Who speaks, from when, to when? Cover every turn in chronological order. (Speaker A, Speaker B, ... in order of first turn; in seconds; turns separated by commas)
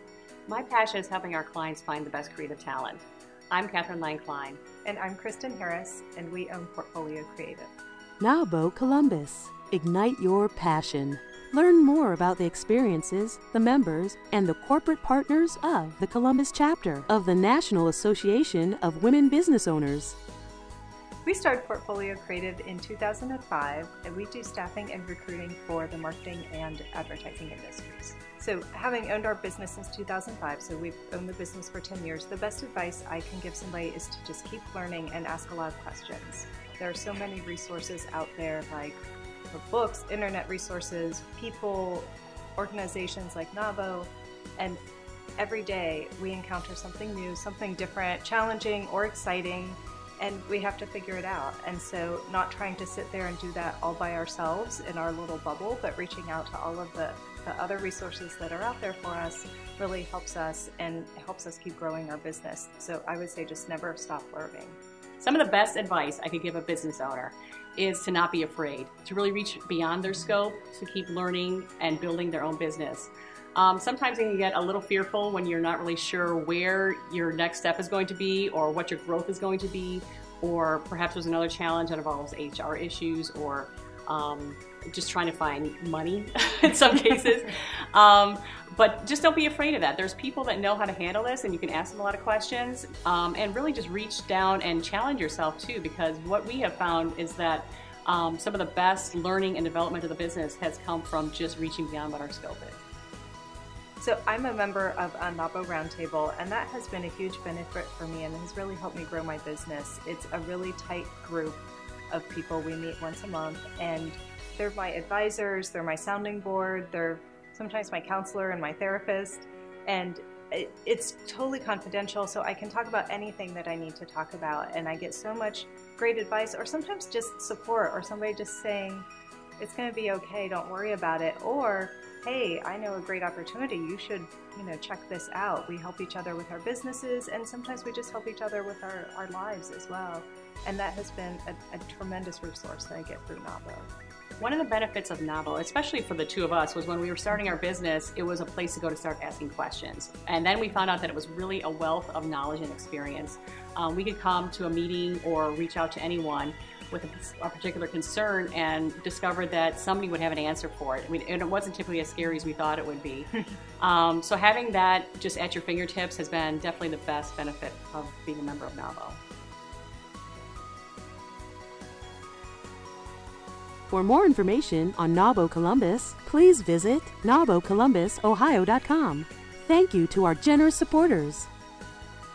Speaker A: 0.5-4.6, Speaker B: 4.8-7.7, Speaker C: 8.2-20.2, Speaker B: 21.2-39.0, Speaker B: 39.5-44.8, Speaker B: 45.4-64.8, Speaker A: 65.2-102.8, Speaker B: 104.0-111.6, Speaker B: 112.1-129.1, Speaker B: 129.6-143.9, Speaker A: 144.4-169.2, Speaker C: 173.9-181.5